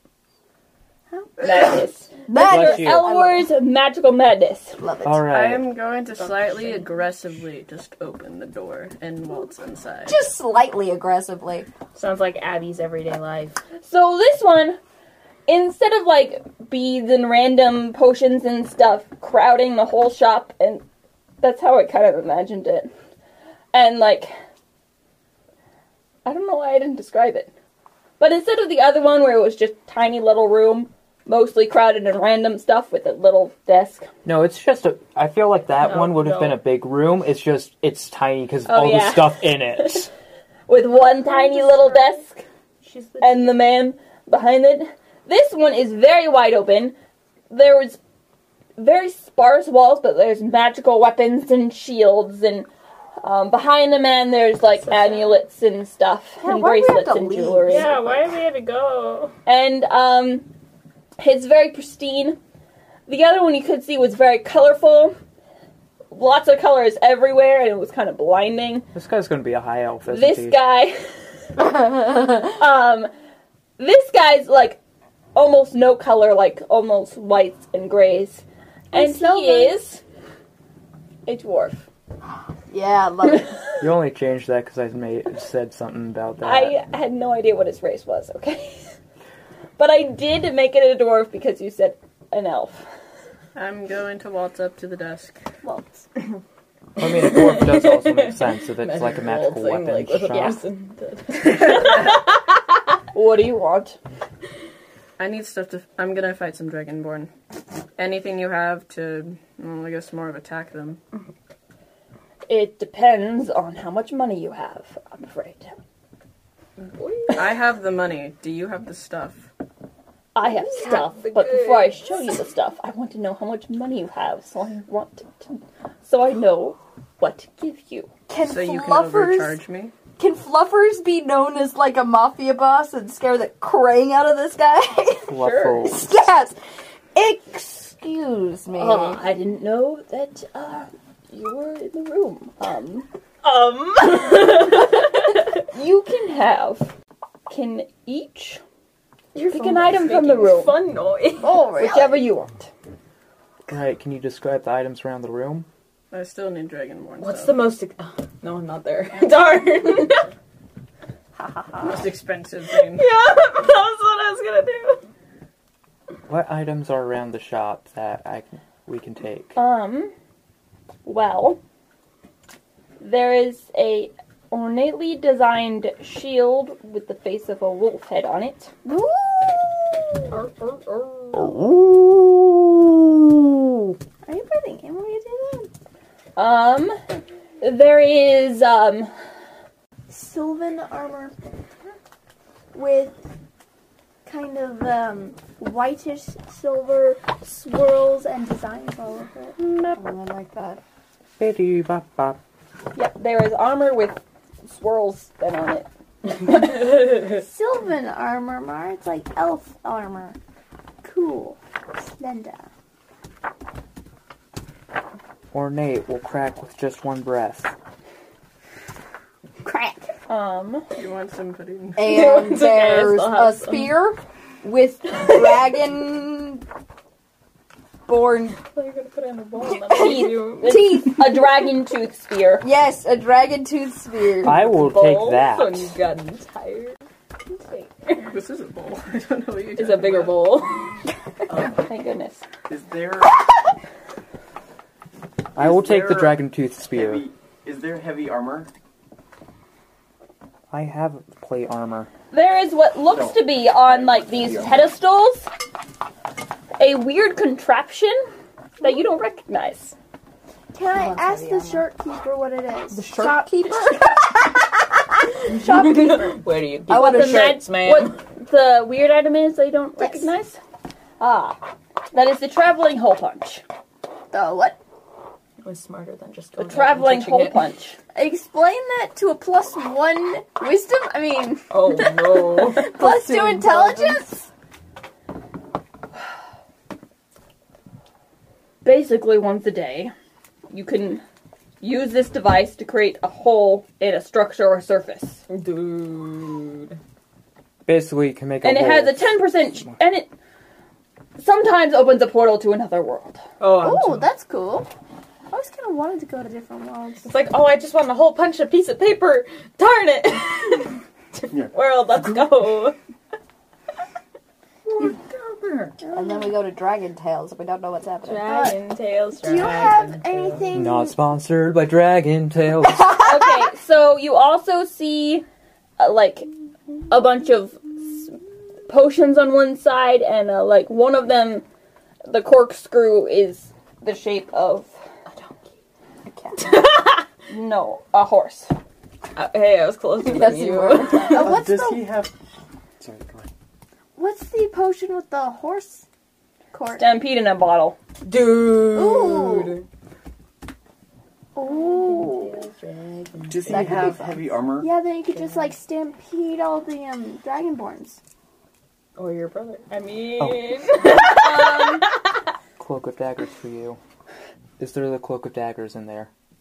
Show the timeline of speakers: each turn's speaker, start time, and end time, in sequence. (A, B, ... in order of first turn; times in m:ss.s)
0:01.1-0:01.8 A
0:01.4-0:04.8 B
0:02.3-0:03.5 C
0:02.4-0:03.1 D
0:04.8-0:05.3 C
0:05.0-0:05.7 D
0:05.3-0:10.2 E
0:06.2-0:06.8 F
0:10.1-0:11.7 C
0:11.9-0:13.6 F
0:13.8-0:14.8 B
0:15.5-0:20.8 B
0:21.4-0:22.9 B
0:23.7-0:24.3 B
0:26.2-0:27.5 B
0:28.2-0:34.1 B
0:34.2-0:40.1 D
0:35.8-0:36.6 F
0:38.7-0:40.1 B
0:40.7-0:42.4 B
0:41.2-0:42.2 F
0:42.8-0:43.6 F
0:43.2-0:46.9 B
0:47.5-0:48.0 B
0:48.8-0:52.7 B
0:53.2-0:57.9 B
0:54.8-0:55.4 F
0:56.4-0:58.2 C
0:57.6-0:59.3 F
0:59.4-1:00.5 B
1:01.2-1:02.4 B
1:03.1-1:05.2 B
1:06.1-1:08.9 B
1:08.9-1:10.6 D
1:10.1-1:11.0 B
1:12.4-1:13.1 B
1:13.8-1:14.8 B
1:15.3-1:20.0 B
1:18.9-1:19.8 A
1:21.2-1:21.8 B
1:22.7-1:23.6 C
1:23.8-1:26.8 D
1:26.4-1:28.9 B
1:29.8-1:32.8 B
1:33.5-1:35.4 E
1:35.6-1:36.0 A
1:37.0-1:40.6 D
1:37.0-1:42.3 F
1:43.1-1:44.0 B
1:45.2-1:47.3 E
1:48.0-1:51.0 E
1:52.5-1:55.8 B
1:56.8-1:57.6 F
1:57.3-1:59.5 E
2:00.3-2:08.1 B
2:00.7-2:02.0 F
2:08.3-2:09.6 C
2:08.4-2:09.9 E
2:10.2-2:16.6 C
2:15.3-2:16.1 D
2:15.4-2:15.8 B
2:17.1-2:19.2 C
2:18.7-2:23.1 B
2:23.4-2:25.4 F
2:25.7-2:26.9 B
2:27.5-2:28.6 B
2:29.3-2:31.6 F
2:29.5-2:30.8 B
2:31.4-2:32.2 A
2:31.8-2:32.7 B
2:33.7-2:35.7 D
2:36.1-2:37.6 E
2:37.2-2:40.3 F
2:41.8-2:43.0 E
2:42.8-2:45.0 F
2:46.3-2:49.5 D
2:49.6-2:50.1 B
2:51.0-2:51.6 B
2:53.0-2:58.7 B
2:58.8-3:00.4 A
3:00.3-3:01.5 F
3:01.3-3:04.0 C
3:04.2-3:05.7 A
3:06.4-3:07.0 B
3:07.6-3:09.1 B
3:10.1-3:11.3 A
3:12.7-3:13.3 A
3:14.2-3:19.6 A
3:19.9-3:20.8 C
3:21.4-3:22.4 D
3:22.9-3:26.8 B
3:27.2-3:30.4 A
3:31.0-3:32.7 A
3:35.5-3:37.7 D
3:39.6-3:40.1 A
3:40.3-3:40.8 B
3:41.0-3:42.2 E
3:42.0-3:46.6 C
3:42.0-3:43.9 F
3:48.1-3:48.6 C
3:48.7-3:50.9 F
3:49.7-3:51.6 C
3:49.9-3:52.6 B
3:52.6-3:54.6 C
3:54.4-3:55.9 D
3:54.5-3:57.0 F
3:57.7-3:58.1 F
3:58.2-4:00.4 E
3:59.8-4:00.8 F
4:01.5-4:01.9 G
4:01.7-4:02.4 B
4:02.7-4:03.4 G
4:05.5-4:07.2 D
4:05.6-4:08.7 G
4:10.7-4:12.1 D
4:12.3-4:15.5 B
4:13.1-4:14.9 G
4:16.8-4:18.2 B
4:18.8-4:20.0 B
4:20.7-4:24.3 A
4:20.9-4:21.9 C
4:22.9-4:24.5 C
4:25.5-4:26.4 A
4:25.5-4:28.2 F
4:26.9-4:27.6 C
4:26.9-4:30.6 B
4:30.0-4:30.3 A
4:31.2-4:31.6 B
4:32.1-4:33.6 B
4:34.3-4:34.8 A
4:35.6-4:37.6 F
4:36.6-4:38.0 B
4:38.1-4:41.8 A
4:41.7-4:42.9 F
4:42.5-4:44.4 A
4:42.6-4:44.3 C
4:48.8-4:50.1 B
4:50.7-4:51.2 B
4:51.8-4:55.4 B
4:55.5-4:57.0 F
4:57.8-4:59.3 D
4:58.6-5:00.3 B
5:01.4-5:03.4 B
5:03.6-5:04.3 F
5:03.7-5:04.9 A
5:05.5-5:07.3 A
5:07.2-5:13.0 F
5:14.9-5:16.0 F
5:16.0-5:16.5 A
5:16.1-5:18.7 C
5:18.2-5:20.7 F
5:18.4-5:18.8 A
5:19.3-5:21.2 A
5:20.7-5:23.4 D
5:22.9-5:23.2 C
5:23.2-5:25.4 B
5:26.0-5:26.5 B
5:27.1-5:31.6 B
5:32.3-5:34.9 B
5:35.3-5:35.6 F
5:36.3-5:36.8 C
5:36.6-5:37.2 F
5:37.5-5:38.7 B
5:39.3-5:41.5 F
5:40.2-5:41.3 C
5:41.2-5:42.1 A
5:41.3-5:42.3 G
5:43.0-5:43.5 G
5:44.2-5:46.0 A
5:46.7-5:47.1 A
5:46.9-5:48.0 B
5:48.2-5:49.8 F
5:48.8-5:49.8 A
5:51.5-5:52.6 A
5:51.6-5:54.1 F
5:53.5-5:54.9 G
5:53.6-5:54.4 C
5:54.8-5:58.2 A
5:55.3-5:55.7 F
5:59.2-6:02.2 F
6:00.4-6:00.9 D
6:01.2-6:02.0 B
6:02.8-6:04.0 D
6:04.8-6:06.3 D